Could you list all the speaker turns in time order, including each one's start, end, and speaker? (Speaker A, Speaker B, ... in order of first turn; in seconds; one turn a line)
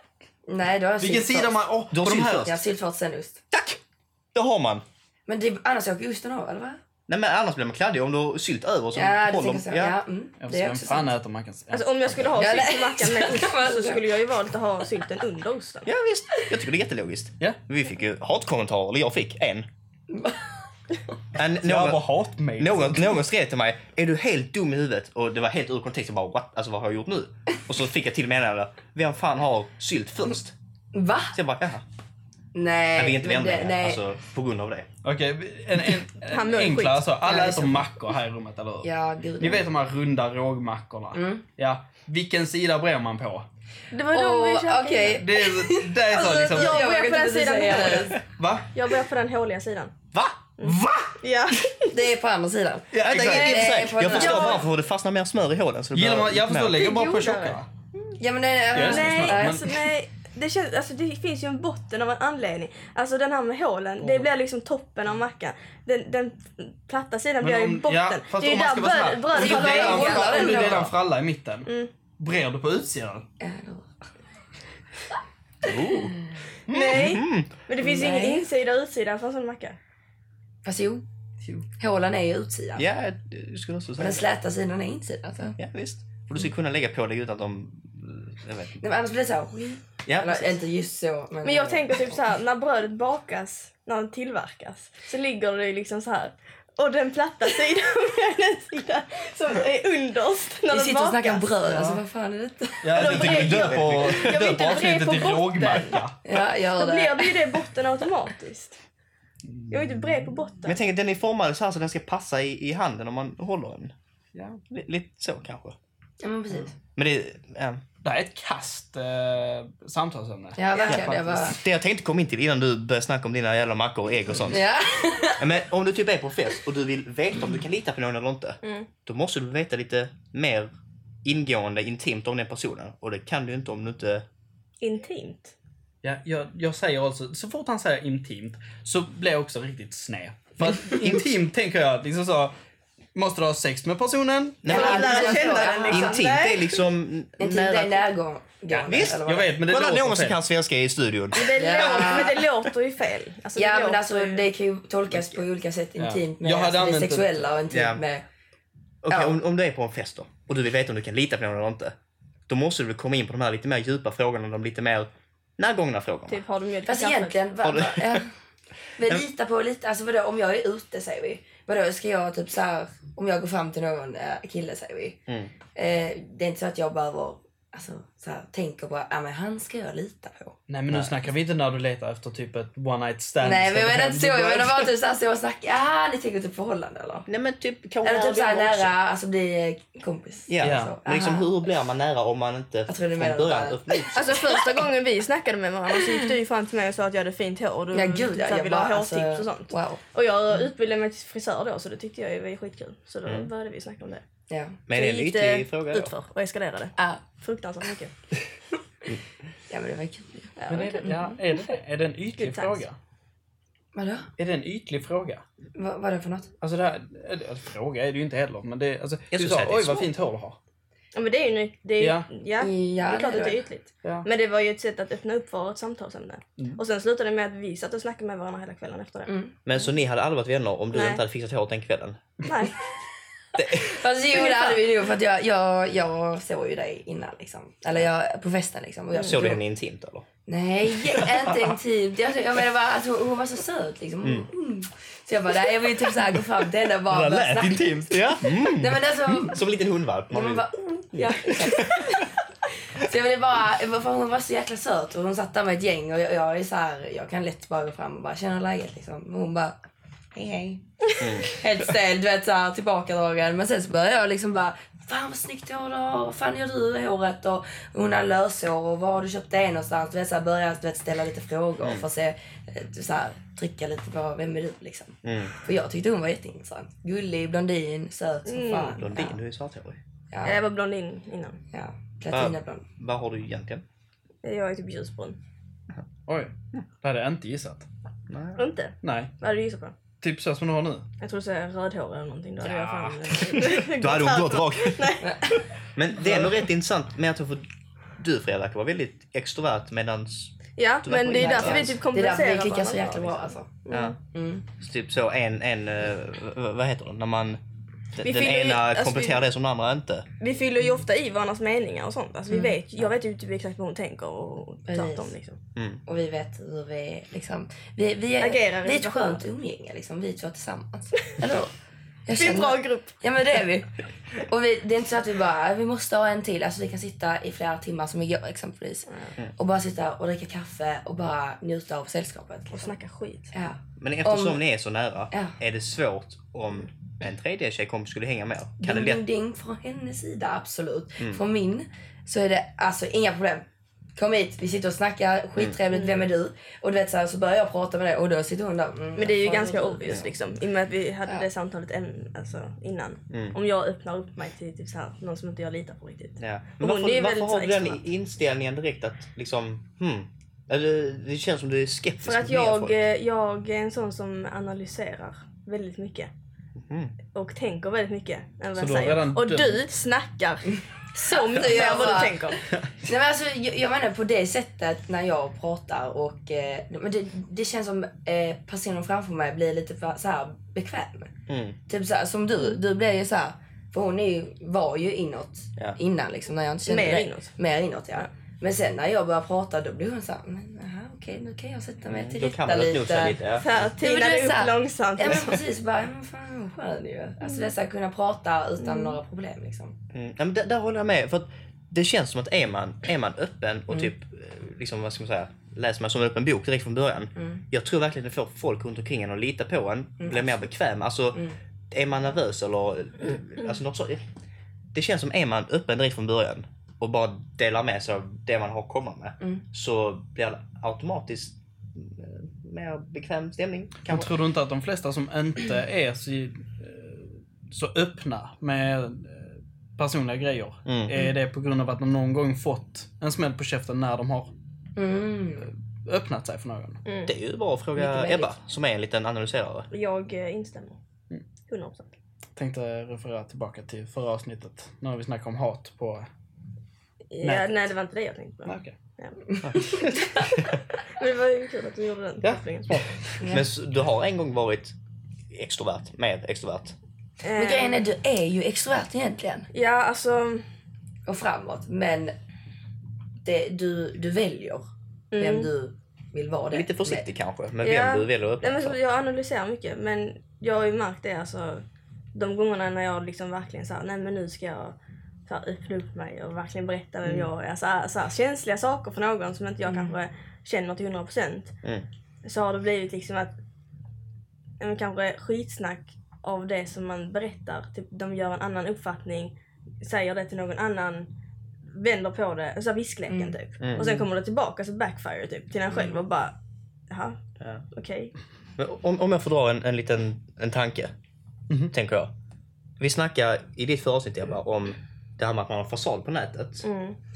Speaker A: 0.5-1.6
Speaker B: 1.0-2.5
Speaker C: 1.9-2.5
Speaker A: 2.4-3.4
Speaker C: 3.5-3.8
Speaker C: 4.3-4.8
Speaker A: 5.3-6.8
Speaker C: 7.1-10.0
Speaker A: 8.9-11.1
Speaker B: 10.4-12.6
Speaker D: 11.7-15.9
Speaker A: 12.3-14.0
Speaker C: 15.8-19.7
Speaker A: 20.1-20.5
Speaker C: 21.3-22.0
Speaker B: 21.6-23.2
Speaker C: 22.6-30.5
Speaker A: 30.9-31.4
Speaker C: 31.3-31.8
Speaker A: 32.5-34.0
Speaker C: 33.0-34.9
Speaker B: 35.0-43.5
Speaker D: 36.3-37.1
Speaker A: 37.2-37.9
Speaker A: 38.8-39.6
Speaker A: 41.1-41.4
Speaker D: 43.9-45.2
Speaker A: 44.1-48.2
Speaker B: 45.2-46.9
Speaker D: 46.5-48.2
Speaker B: 47.7-48.7
Speaker D: 48.7-49.9
Speaker C: 50.1-51.1
Speaker D: 50.6-51.8
Speaker A: 51.9-54.6
Speaker B: 52.9-54.1
Speaker C: 53.0-56.9
Speaker D: 54.1-54.7
Speaker B: 55.9-57.7
Speaker D: 56.8-57.6
Speaker A: 58.2-59.7
Speaker B: 58.7-59.8
Speaker D: 58.8-70.8
Speaker B: 64.0-64.3
Speaker B: 67.4-73.2
Speaker A: 69.3-70.9
Speaker A: 73.4-73.9
Speaker C: 75.6-77.5
Speaker D: 76.7-79.8
Speaker A: 77.8-78.5
Speaker A: 80.6-81.0
Speaker A: 81.8-82.8
Speaker C: 82.8-84.2
Speaker A: 84.0-85.6
Speaker C: 85.6-88.8
Speaker A: 88.8-92.2
Speaker C: 90.1-90.5
Speaker D: 91.4-101.5
Speaker A: 100.7-103.1
Speaker B: 101.7-102.0
Speaker B: 102.8-106.2
Speaker C: 102.9-104.4
Speaker D: 103.0-106.0
Speaker A: 106.2-107.6
Speaker D: 106.7-108.8
Speaker B: 109.5-110.2
Speaker D: 109.7-110.8
Speaker C: 110.6-113.9
Speaker B: 114.3-114.6
Speaker C: 114.7-115.8
Speaker A: 116.2-116.7
Speaker C: 116.9-117.8
Speaker B: 118.0-121.5
Speaker A: 120.5-121.6
Speaker C: 120.8-124.7
Speaker A: 124.5-125.5
Speaker C: 125.4-130.7
Speaker D: 128.6-128.9
Speaker C: 131.2-134.2
Speaker D: 134.8-135.5
Speaker B: 136.0-142.5
Speaker B: 143.1-144.9
Speaker C: 144.6-148.1
Speaker A: 144.6-146.3
Speaker D: 144.7-146.8
Speaker A: 147.4-149.6
Speaker C: 148.8-152.4
Speaker B: 148.9-150.4
Speaker D: 151.3-154.4
Speaker A: 151.5-152.4
Speaker A: 153.6-158.2
Speaker B: 156.0-157.5
Speaker C: 157.7-158.0
Speaker C: 159.0-161.9
Speaker A: 159.1-159.4
Speaker C: 162.5-166.4
Speaker D: 166.3-167.4
Speaker A: 166.9-168.3
Speaker C: 167.6-168.2
Speaker A: 169.0-175.2
Speaker C: 175.3-175.5
Speaker A: 175.7-180.6
Speaker B: 180.7-184.9
Speaker A: 183.4-187.3
Speaker C: 187.3-188.9
Speaker A: 188.0-191.5
Speaker C: 190.5-194.7
Speaker B: 190.6-190.9
Speaker A: 192.9-194.1
Speaker D: 194.1-204.2
Speaker A: 197.9-200.0
Speaker C: 203.2-203.5
Speaker A: 204.5-204.8
Speaker C: 204.9-206.1
Speaker D: 204.9-208.1
Speaker A: 207.0-207.2
Speaker A: 209.7-211.3
Speaker D: 210.6-211.2
Speaker B: 210.7-212.9
Speaker D: 212.4-212.8
Speaker A: 213.9-214.3
Speaker B: 214.4-215.4
Speaker A: 215.7-216.5
Speaker B: 216.6-220.6
Speaker C: 219.3-220.1
Speaker D: 221.1-229.3
Speaker B: 222.0-222.3
Speaker A: 222.6-223.6
Speaker A: 229.3-229.6
Speaker C: 229.7-232.4
Speaker D: 230.9-231.2
Speaker D: 232.4-232.8
Speaker C: 233.5-234.0
Speaker A: 233.6-239.6
Speaker D: 234.3-234.7
Speaker D: 239.1-239.4
Speaker C: 239.2-240.2
Speaker A: 240.5-249.6
Speaker C: 244.2-244.5
Speaker B: 247.1-248.3
Speaker C: 248.1-250.7
Speaker A: 250.3-252.3
Speaker C: 251.3-252.1
Speaker A: 252.9-259.8
Speaker A: 260.3-260.8
Speaker C: 261.2-261.6
Speaker A: 261.4-279.4
Speaker C: 275.2-275.5
Speaker D: 278.4-279.0
Speaker C: 278.7-280.0
Speaker A: 280.3-280.6
Speaker D: 280.4-281.6
Speaker A: 281.7-282.8
Speaker C: 282.3-283.8
Speaker D: 284.4-285.4
Speaker B: 286.3-287.9
Speaker C: 288.3-288.6
Speaker D: 288.6-289.9
Speaker B: 289.0-289.3
Speaker B: 290.2-291.1
Speaker D: 291.2-295.6
Speaker B: 292.7-293.1
Speaker C: 292.7-295.1
Speaker C: 295.9-297.6
Speaker C: 298.2-301.9
Speaker D: 300.8-304.1
Speaker A: 301.3-304.6
Speaker C: 303.9-304.1
Speaker C: 304.8-307.6
Speaker C: 308.1-310.3
Speaker D: 308.2-309.4
Speaker D: 310.4-315.6
Speaker A: 312.5-312.8
Speaker A: 314.9-315.3
Speaker C: 315.8-316.0
Speaker A: 316.1-321.7
Speaker D: 318.4-319.4
Speaker A: 322.2-332.9
Speaker D: 322.3-323.2
Speaker D: 329.1-329.3
Speaker D: 332.7-333.5
Speaker A: 333.5-334.6
Speaker C: 334.0-339.2
Speaker A: 338.8-343.6
Speaker A: 344.1-350.2
Speaker D: 345.9-346.2
Speaker D: 349.1-358.0
Speaker C: 353.3-353.6
Speaker C: 356.4-363.0
Speaker D: 362.2-366.3
Speaker C: 366.8-367.1
Speaker D: 367.3-372.6
Speaker B: 368.8-369.8
Speaker A: 371.1-381.3
Speaker C: 381.5-381.8
Speaker A: 381.9-393.4
Speaker D: 386.8-387.5
Speaker C: 392.1-393.7
Speaker D: 393.6-395.6
Speaker A: 394.0-399.9
Speaker C: 395.3-395.6
Speaker D: 398.8-399.2
Speaker C: 400.1-414.2
Speaker A: 407.4-407.6
Speaker A: 410.2-410.5
Speaker C: 414.9-424.3
Speaker B: 424.1-434.5
Speaker C: 430.9-431.1
Speaker A: 434.9-435.7
Speaker B: 435.7-437.0
Speaker D: 437.1-437.3
Speaker C: 437.2-439.9
Speaker A: 437.9-438.5
Speaker D: 439.9-441.0
Speaker D: 441.7-442.1
Speaker B: 442.6-446.3
Speaker D: 447.3-449.4
Speaker B: 447.4-447.8
Speaker B: 448.7-448.9
Speaker C: 449.6-450.6
Speaker D: 451.0-453.0
Speaker B: 452.4-453.4
Speaker A: 453.4-453.7
Speaker C: 453.5-454.9
Speaker C: 455.5-456.9
Speaker D: 457.4-458.0
Speaker A: 457.6-459.7
Speaker D: 459.7-460.6
Speaker A: 461.3-462.3
Speaker A: 463.4-464.8
Speaker D: 465.3-465.7
Speaker A: 465.4-467.2
Speaker C: 466.7-469.0
Speaker D: 467.8-481.8
Speaker A: 479.9-480.1
Speaker D: 482.4-483.5
Speaker D: 484.8-491.3
Speaker D: 491.9-496.6
Speaker A: 493.3-493.6
Speaker C: 493.8-494.3
Speaker D: 497.1-497.4
Speaker C: 497.6-497.8
Speaker D: 497.9-498.3
Speaker C: 498.8-501.1
Speaker C: 501.9-502.3
Speaker C: 503.0-506.9
Speaker D: 506.8-507.2